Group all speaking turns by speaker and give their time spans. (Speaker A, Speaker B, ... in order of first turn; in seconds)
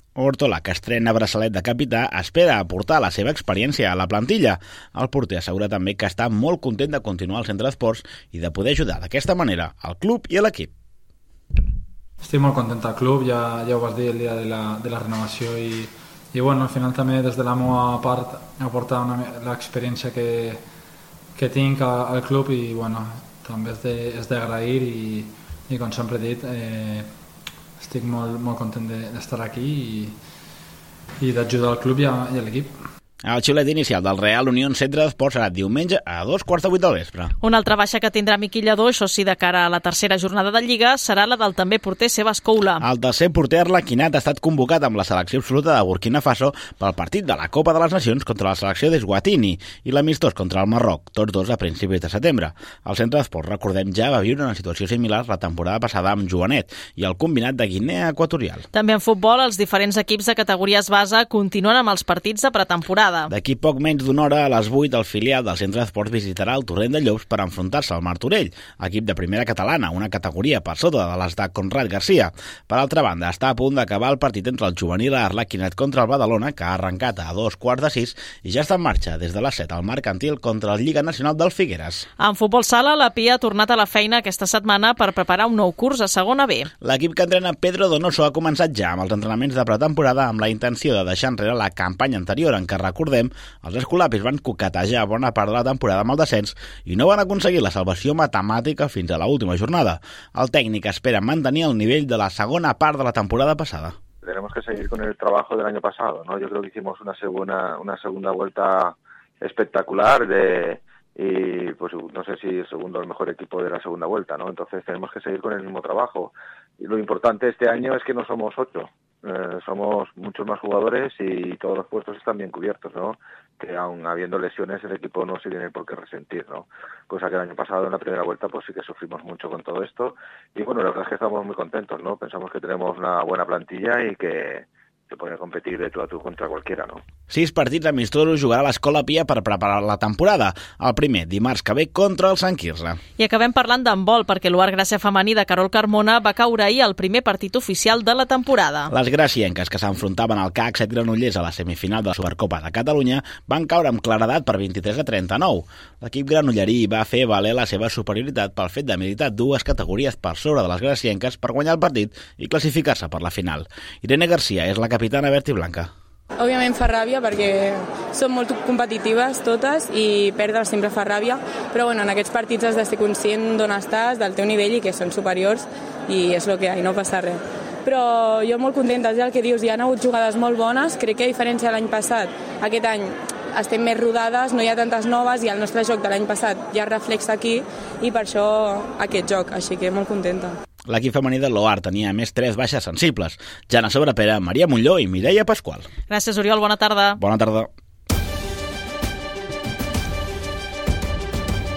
Speaker A: 0.2-10.7, 33.2-37.3, 42.8-58.6, 63.3-82.1, 86.8-104.0, 137.3-143.0, 148.9-165.9, 190.9-195.9, 197.2-197.7
Speaker B: 12.2-20.6, 21.4-27.1, 27.8-30.2, 31.2-32.8
Speaker C: 37.4-42.8, 58.7-63.3, 82.2-86.7, 143.2-148.9, 196.1-197.2
Speaker D: 104.2-137.0
Speaker E: 166.4-190.6